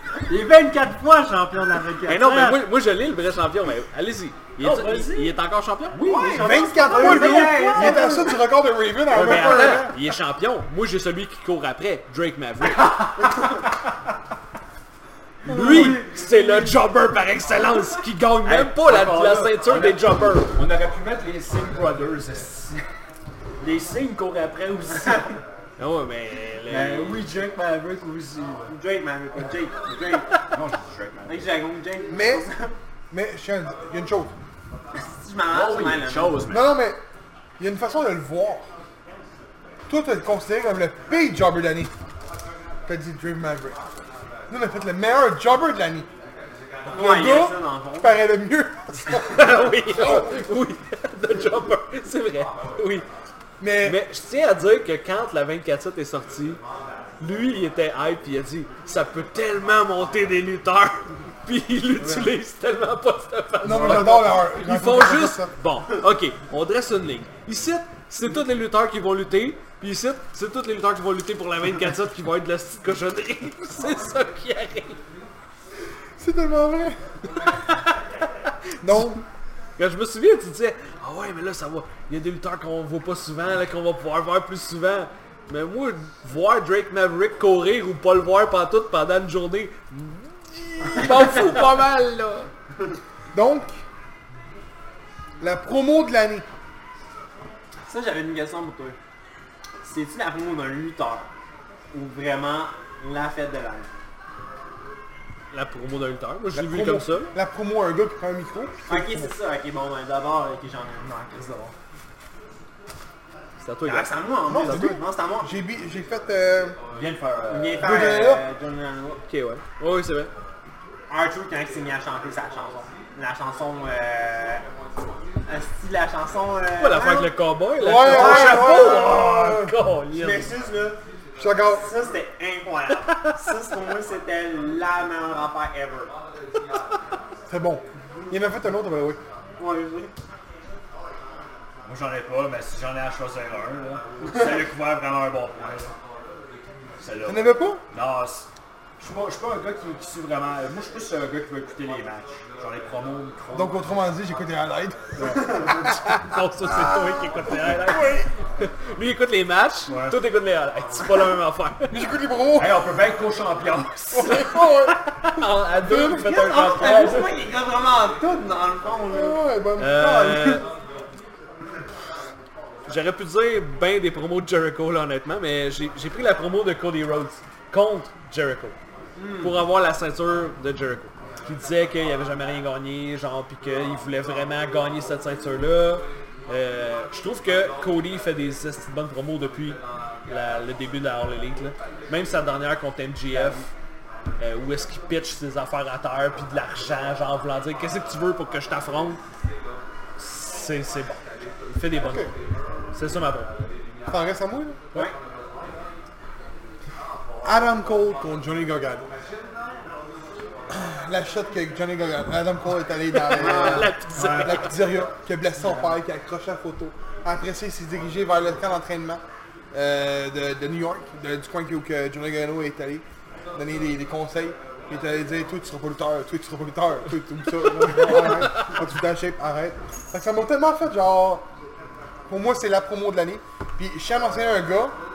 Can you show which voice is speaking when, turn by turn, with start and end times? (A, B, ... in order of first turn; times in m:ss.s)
0:00.3-0:02.6 A
0:02.1-0:06.0 B
0:02.3-0:02.6 C
0:04.6-0:05.4 C
0:05.9-0:08.0 C
0:06.0-0:08.4 A
0:06.4-0:10.0 D
0:07.2-0:08.0 B
0:09.1-0:13.0 B
0:09.1-0:09.9 C
0:12.8-0:13.1 C
0:15.5-0:20.6 B
0:15.5-0:16.1 D
0:15.5-0:16.7 C
0:18.4-0:22.9 C
0:23.6-0:25.4 C
0:24.9-0:25.4 A
0:25.8-0:27.2 B
0:26.7-0:28.7 C
0:28.7-0:30.5 A
0:30.5-0:31.5 C
0:31.3-0:32.8 A
0:32.1-0:32.5 D
0:33.1-0:34.3 D
0:34.9-0:36.4 A
0:35.5-0:36.7 C
0:36.5-0:37.0 D
0:37.6-0:38.7 D
0:39.9-0:41.9 D
0:42.9-0:43.8 D
0:44.5-0:46.1 D
0:46.9-0:50.4 D
0:46.9-0:48.2 A
0:49.3-0:53.1 B
0:53.6-0:54.0 D
0:53.8-0:56.6 B
0:57.2-1:15.0 B
1:02.0-1:02.3 D
1:03.6-1:05.5 D
1:16.2-1:17.0 D
1:18.8-1:19.2 D
1:19.8-1:32.5 B
1:33.3-1:33.8 D
1:35.4-1:36.4 D
1:37.8-1:39.0 A
1:39.8-1:41.3 A
1:41.9-1:44.0 A
1:45.5-1:47.4 B
1:46.5-1:49.4 D
1:48.9-1:51.7 A
1:53.6-1:55.0 B
1:53.8-1:55.5 A
1:54.5-1:56.8 D
1:56.9-1:58.0 C
1:57.5-1:59.2 A
1:57.8-1:58.4 D
1:59.3-2:00.3 B
2:01.1-2:04.6 A
2:05.4-2:07.4 A
2:06.8-2:10.5 B
2:07.8-2:09.7 D
2:08.0-2:09.2 A
2:10.1-2:11.0 A
2:11.4-2:11.9 D
2:11.6-2:16.2 A
2:17.5-2:19.2 D
2:19.6-2:20.1 A
2:21.8-2:25.9 C
2:27.0-2:33.8 C
2:27.3-2:27.8 D
2:33.5-2:36.0 D
2:35.2-2:42.1 B
2:35.3-2:35.7 A
2:36.6-2:38.3 D
2:39.9-2:40.3 C
2:41.9-2:42.9 D
2:42.6-2:44.5 C
2:44.1-2:46.6 D
2:44.2-2:47.4 B
2:46.1-2:49.4 A
2:49.1-2:50.6 D
2:49.8-2:50.7 B
2:50.3-2:50.6 A
2:52.9-2:58.8 B
2:59.2-2:59.6 A
2:59.4-3:13.7 B
3:14.4-3:19.2 B
3:20.2-3:22.3 B
3:22.0-3:22.3 D
3:22.9-3:23.5 B
3:24.1-3:24.8 D
3:27.4-3:29.1 D
3:30.7-3:51.5 D
3:33.1-3:34.8 B
3:33.4-3:33.9 A
3:34.1-3:34.7 C
3:47.8-3:48.7 B
3:52.3-3:55.0 D